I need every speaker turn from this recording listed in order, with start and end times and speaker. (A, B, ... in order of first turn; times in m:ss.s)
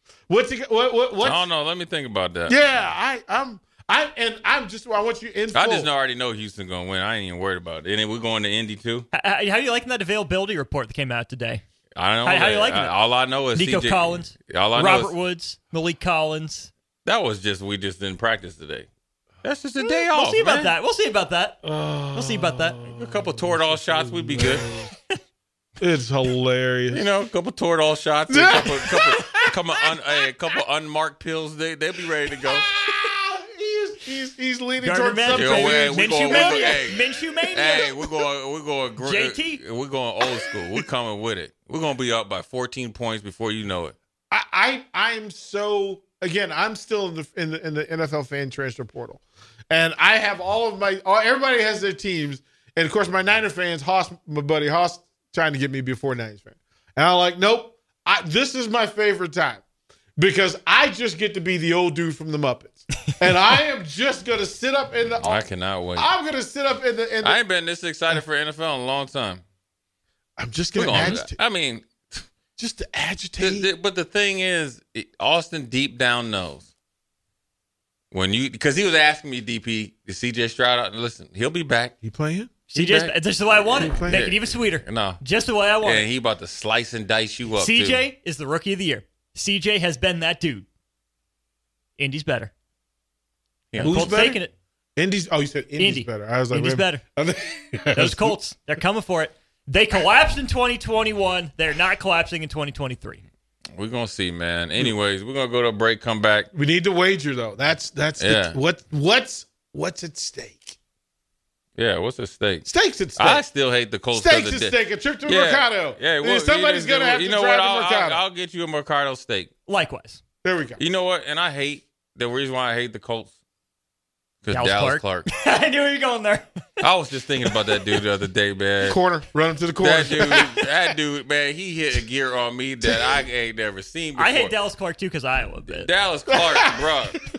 0:00.3-0:01.4 A
0:01.2-0:02.6 B
0:02.5-0:05.9 A
0:05.5-0:09.1 B
0:09.1-0:11.6 C
0:12.0-0:15.2 B
0:12.2-0:13.0 C
0:13.5-0:16.7 C
0:17.0-0:18.9 B
0:19.4-0:20.8 B
0:19.8-0:21.6 C
0:21.6-0:24.9 A
0:22.1-0:22.8 C
0:22.8-0:24.7 B
0:25.8-0:27.0 A
0:26.9-0:32.7 B
0:28.3-0:29.6 A
0:32.5-0:36.9 A
0:34.8-0:38.0 C
0:35.3-0:37.0 B
0:37.5-0:44.0 B
0:39.0-0:39.6 C
0:44.3-0:59.6 A
1:00.2-1:05.4 A
1:05.2-1:06.1 B
1:06.0-1:07.4 A
1:07.2-1:09.4 B
1:10.4-1:11.4 A
1:10.8-1:12.2 B
1:12.6-1:13.7 A
1:13.4-1:16.7 B
1:18.1-1:22.0 B
1:22.0-1:22.7 A
1:22.7-1:26.1 C
1:22.7-1:23.2 B
1:23.7-1:25.2 B
1:23.8-1:24.3 A
1:25.8-1:28.1 B
1:27.6-1:30.7 C
1:32.0-1:32.5 C
1:33.7-1:34.2 B
1:33.8-1:34.5 C
1:33.8-1:34.4 A
1:35.0-1:38.4 A
1:35.8-1:37.0 C
1:38.0-1:43.2 C
1:43.8-1:46.5 B
1:46.5-1:50.8 A
1:48.2-1:48.6 B
1:51.8-1:59.5 B
1:52.6-1:53.5 A
1:54.1-1:58.2 A
1:59.7-2:00.2 C
2:00.4-2:00.8 A
2:00.8-2:03.3 B
2:04.4-2:05.3 B
2:04.5-2:06.5 C
2:06.8-2:09.0 B
2:08.8-2:10.6 A
2:09.8-2:14.6 B
2:14.2-2:15.9 C
2:15.6-2:17.2 B
2:16.3-2:16.9 A